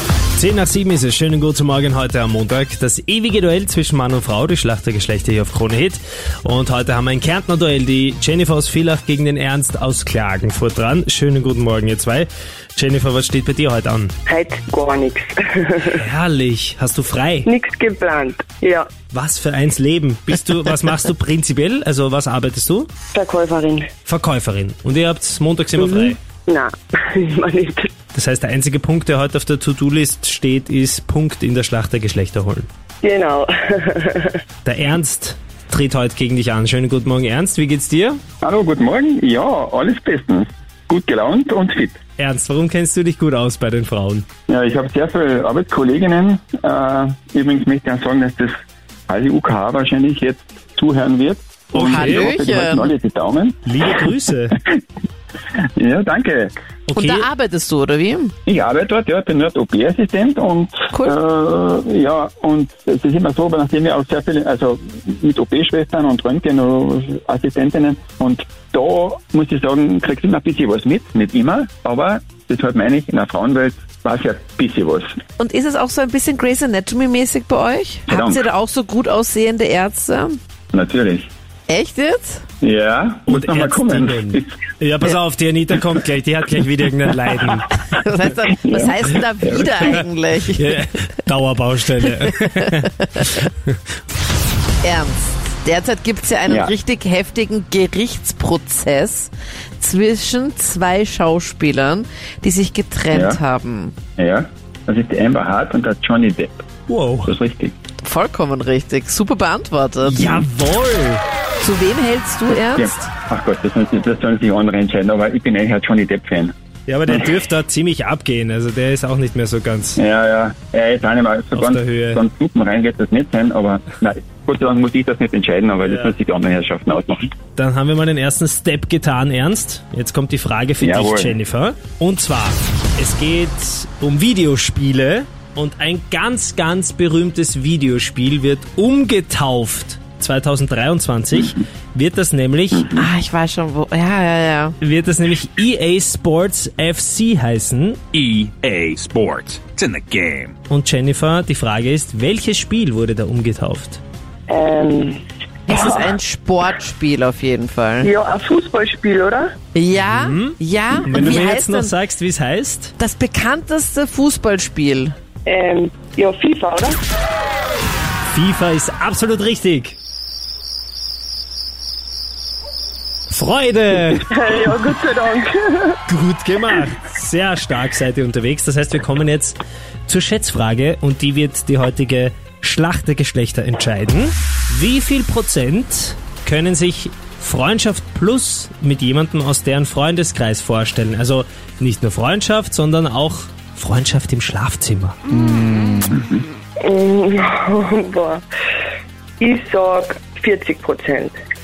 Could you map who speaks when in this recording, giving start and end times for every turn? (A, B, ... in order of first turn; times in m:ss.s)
0:00.4-0:14.1 A
0:14.3-0:16.0 B
0:15.9-0:17.5 A
0:17.4-0:18.9 B
0:19.1-0:22.9 A
0:23.1-0:23.9 B
0:24.0-0:26.2 A
0:25.8-0:27.9 B
0:28.1-0:32.7 A
0:33.0-0:34.4 B
0:34.6-0:38.2 A
0:38.4-0:42.0 C
0:42.2-0:44.3 A
0:44.5-0:48.6 C
0:49.1-0:53.7 C
0:51.8-0:52.3 A
0:51.8-0:52.9 D
0:53.6-0:54.6 A
0:55.8-0:56.6 C
0:56.9-0:57.3 A
0:56.9-0:58.3 D
0:58.5-1:15.1 C
1:15.4-1:20.4 D
1:18.1-1:18.5 C
1:20.7-1:21.3 C
1:21.7-1:22.4 D
1:22.6-1:24.6 C
1:23.2-1:27.7 A
1:27.8-1:30.7 D
1:28.6-1:30.0 C
1:30.5-1:33.8 A
1:34.8-1:43.9 D
1:36.5-1:36.7 C
1:43.1-1:43.4 C
1:44.2-1:46.6 C
1:46.9-1:47.3 A
1:47.2-1:47.7 C
1:48.0-1:50.5 D
1:50.0-1:51.2 A
1:51.6-1:53.0 D
1:52.6-1:56.5 C
1:56.9-2:00.0 A
2:00.0-2:07.3 C
2:01.6-2:02.2 A
2:05.8-2:06.1 A
2:07.6-2:22.9 A
2:10.8-2:11.4 C
2:22.8-2:23.1 C
2:23.0-2:24.8 D
2:24.8-2:28.1 A
2:28.1-2:30.5 E
2:30.7-2:34.0 A
2:34.5-2:36.1 B
2:35.7-2:38.1 D
2:38.0-2:39.5 B
2:39.8-2:41.9 D
2:39.9-2:42.9 A
2:43.0-2:45.1 D
2:45.4-2:47.0 B
2:48.3-2:50.0 A
2:53.3-2:54.3 A
2:54.3-2:56.0 B
2:56.1-3:15.2 A
3:16.1-3:16.4 C
3:16.8-3:18.4 B
3:19.4-3:21.4 B